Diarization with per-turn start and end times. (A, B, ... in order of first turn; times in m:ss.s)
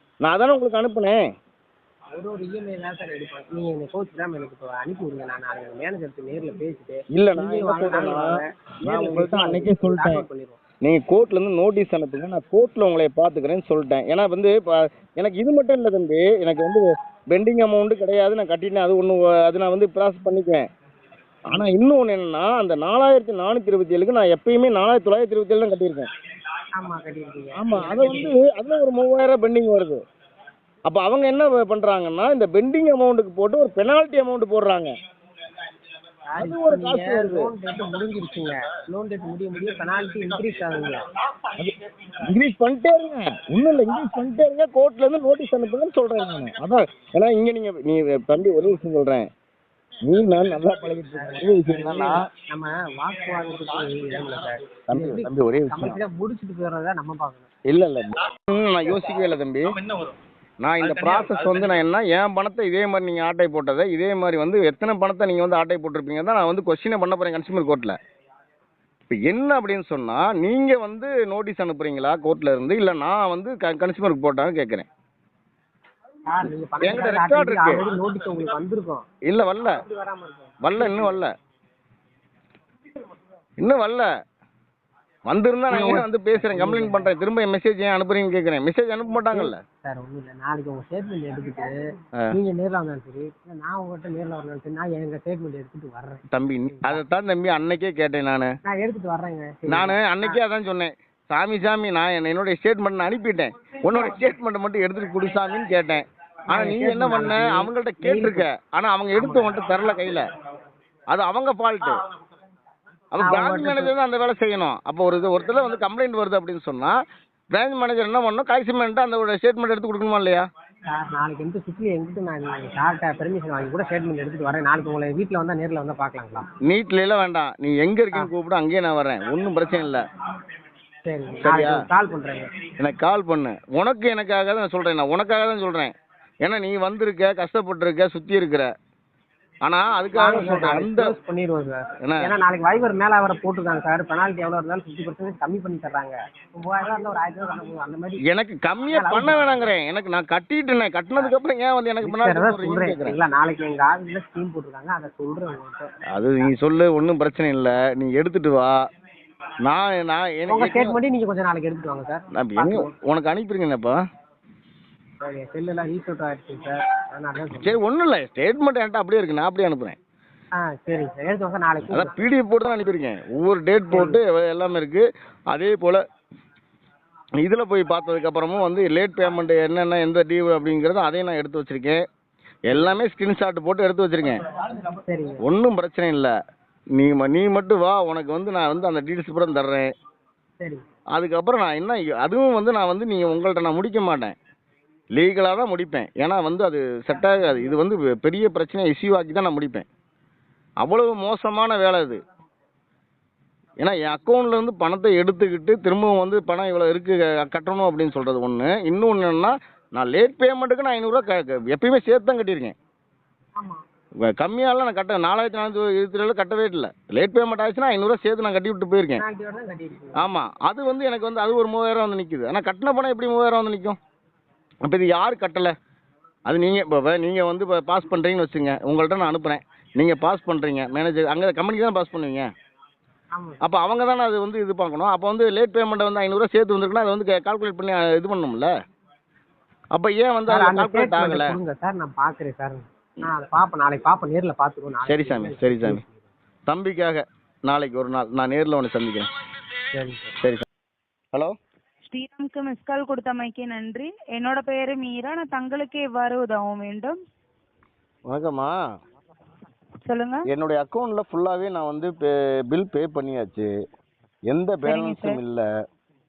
0:00.2-0:01.2 A
0:02.1-0:10.6 B
0:07.1-0:10.2 A
0:10.8-0:20.7 A
0:21.5-0:26.1 A
0:26.8-0:28.3 B
0:27.6-0:30.0 A
0:30.9-0:34.9 A
0:36.3-0:41.0 B
0:36.4-0:37.5 A
0:42.3-0:49.3 A
0:50.0-0:52.2 A
0:51.2-0:57.5 B
0:54.9-0:56.0 A
0:57.7-0:59.8 A
1:00.6-1:08.0 A
1:09.1-1:14.9 A
1:16.3-1:19.0 B
1:16.8-1:17.8 A
1:19.3-1:19.8 A
1:19.8-1:21.2 B
1:20.6-1:21.3 A
1:23.6-1:24.1 A
1:25.3-1:29.6 A
1:25.7-1:27.1 B
1:29.3-1:31.7 B
1:32.3-1:37.0 B
1:36.3-1:38.5 A
1:38.7-1:40.4 B
1:39.7-1:50.3 A
1:46.5-1:48.5 B
1:49.2-1:49.6 B
1:51.1-1:52.0 A
1:53.1-1:56.9 A
1:53.2-1:54.0 B
1:57.5-2:00.5 A
2:00.9-2:06.4 B
2:06.6-2:10.0 A
2:11.0-2:12.5 B
2:11.4-2:11.8 A
2:12.8-2:18.7 A
2:19.6-2:21.2 A
2:20.2-2:28.2 B
2:22.1-2:22.3 A
2:28.3-2:33.2 A
2:28.9-2:29.6 B
2:32.0-2:35.9 B
2:36.1-2:38.8 A
2:39.6-2:41.0 A
2:40.5-2:42.9 B
2:42.3-2:44.0 A
2:45.2-2:47.8 B
2:47.6-2:50.0 A
2:50.6-2:52.2 B
2:51.9-2:56.0 A
2:53.9-2:54.2 B
2:57.4-3:02.0 A
3:02.7-3:04.4 A
3:02.7-3:03.0 B
3:04.9-3:05.4 B
3:05.4-3:06.3 A
3:07.0-3:09.9 A
3:11.2-3:14.4 A
3:15.2-3:19.9 A
3:20.8-3:22.2 A
3:23.8-3:32.8 A
3:33.6-3:33.8 B
3:34.3-3:39.2 A
3:39.2-3:40.3 B
3:40.2-3:44.0 A
3:44.8-3:45.7 A
3:46.5-3:52.5 A
3:53.3-3:53.6 B
3:53.6-3:58.7 A
3:59.9-4:01.6 A
4:00.5-4:06.3 B
4:05.1-4:06.0 A
4:06.7-4:09.3 A
4:09.9-4:10.4 B
4:10.4-4:10.6 A
4:12.0-4:17.2 C
4:18.3-4:18.8 A
4:20.0-4:20.5 C
4:20.5-4:23.7 A
4:24.5-4:25.6 A
4:24.8-4:25.4 C